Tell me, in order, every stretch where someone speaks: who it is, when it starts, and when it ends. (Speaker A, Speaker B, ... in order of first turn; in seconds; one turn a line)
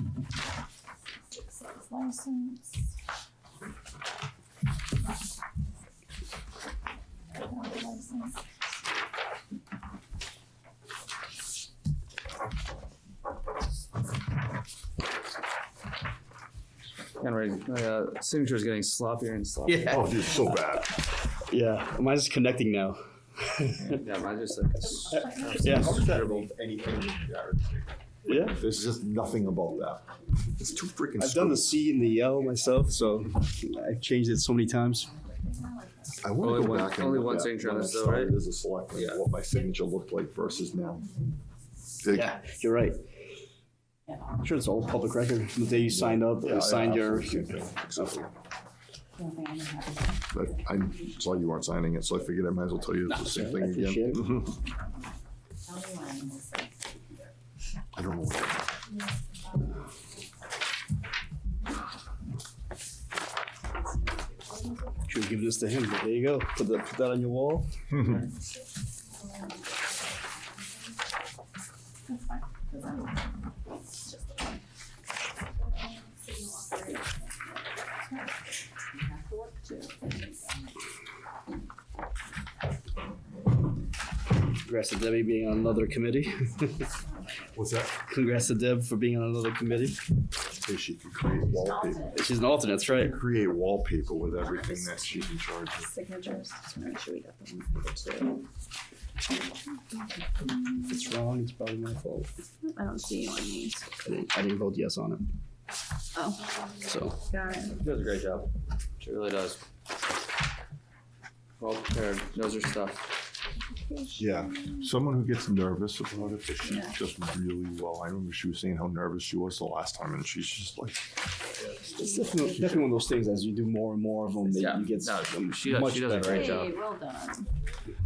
Speaker A: 1.3-2.7
Speaker A: 7.4-8.3
Speaker B: 17.2-20.0
Speaker C: 19.7-20.6
Speaker D: 19.8-20.9
Speaker C: 21.5-24.0
Speaker B: 24.0-26.5
Speaker D: 25.3-31.8
Speaker C: 25.6-26.1
Speaker C: 28.2-28.6
Speaker C: 31.2-35.1
Speaker D: 36.2-41.1
Speaker B: 36.4-38.3
Speaker B: 38.9-39.2
Speaker D: 42.0-42.4
Speaker C: 42.1-43.0
Speaker C: 44.4-48.1
Speaker D: 45.9-48.3
Speaker A: 49.2-50.1
Speaker D: 50.3-54.5
Speaker C: 53.1-54.4
Speaker A: 55.7-56.7
Speaker D: 57.9-58.7
Speaker A: 64.6-64.9
Speaker C: 65.1-67.7
Speaker A: 72.1-72.9
Speaker A: 74.0-74.6
Speaker A: 75.6-78.3
Speaker A: 78.9-80.7
Speaker C: 84.6-86.9
Speaker D: 87.5-88.0
Speaker C: 88.0-90.0
Speaker D: 90.6-92.1
Speaker C: 92.1-93.2
Speaker D: 92.9-95.9
Speaker A: 95.9-98.4
Speaker C: 100.8-102.3
Speaker A: 102.6-103.9
Speaker C: 104.0-105.2
Speaker A: 106.1-106.5
Speaker C: 106.8-107.2
Speaker A: 107.3-107.8
Speaker B: 107.7-108.5
Speaker B: 109.0-109.6
Speaker B: 111.6-113.1
Speaker A: 113.7-114.8
Speaker D: 114.2-121.1
Speaker C: 121.8-126.6
Speaker B: 124.6-126.8
Speaker A: 126.2-127.5